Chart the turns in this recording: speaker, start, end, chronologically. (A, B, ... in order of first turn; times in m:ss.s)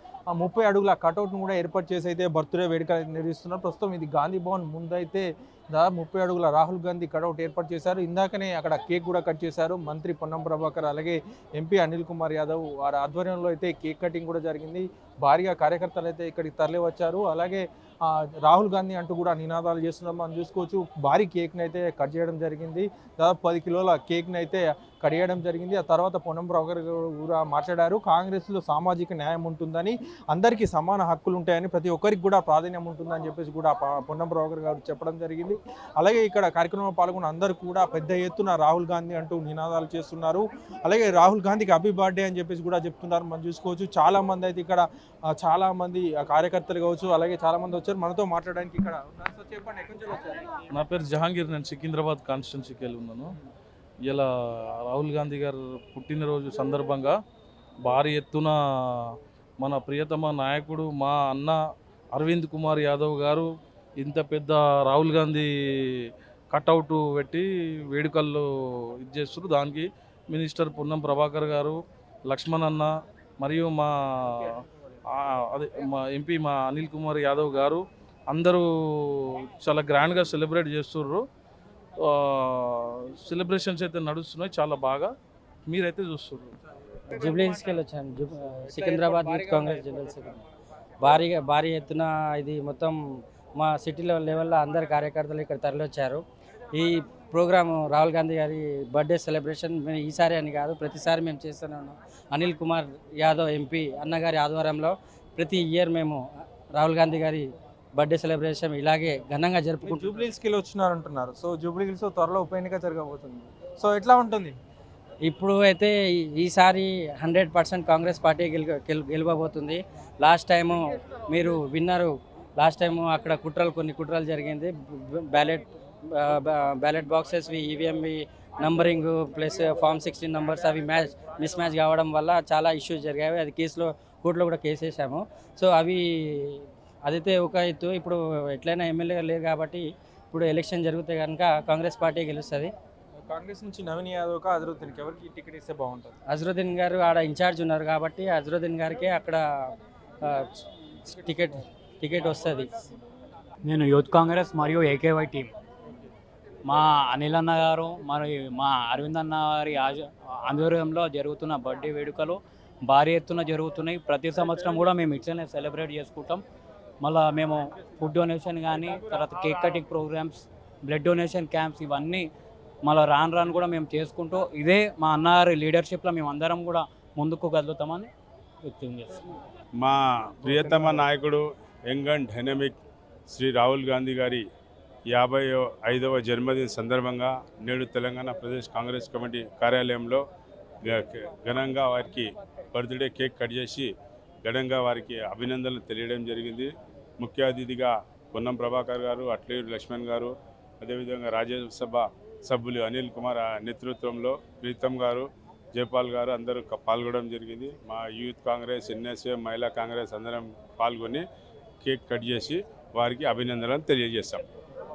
0:00.3-0:50.5 A
0:50.7-0:53.3 B
0:54.1-0:57.1 B
0:57.8-1:01.6 B
1:02.1-1:03.5 B
1:04.0-1:05.5 B
1:06.5-1:08.4 B
1:09.0-1:21.2 B
1:22.0-1:25.1 B
1:25.6-1:26.5 B
1:27.1-1:30.4 C
1:29.0-1:30.1 A
1:31.0-1:33.0 C
1:33.6-1:36.2 C
1:36.7-1:46.2 C
1:46.7-1:50.2 C
1:49.8-1:54.5 A
1:55.2-2:22.7 C
2:23.3-2:26.2 A
2:26.3-2:29.4 C
2:30.2-2:32.7 C
2:33.6-2:35.5 D
2:36.6-2:46.4 D
2:47.0-2:52.2 D
2:52.8-2:58.1 D
2:58.6-2:59.2 D
2:59.8-3:02.8 E
3:03.3-3:04.4 E
3:05.1-3:10.2 E
3:10.9-3:13.9 E
3:14.4-3:31.2 E
3:31.8-3:34.4 E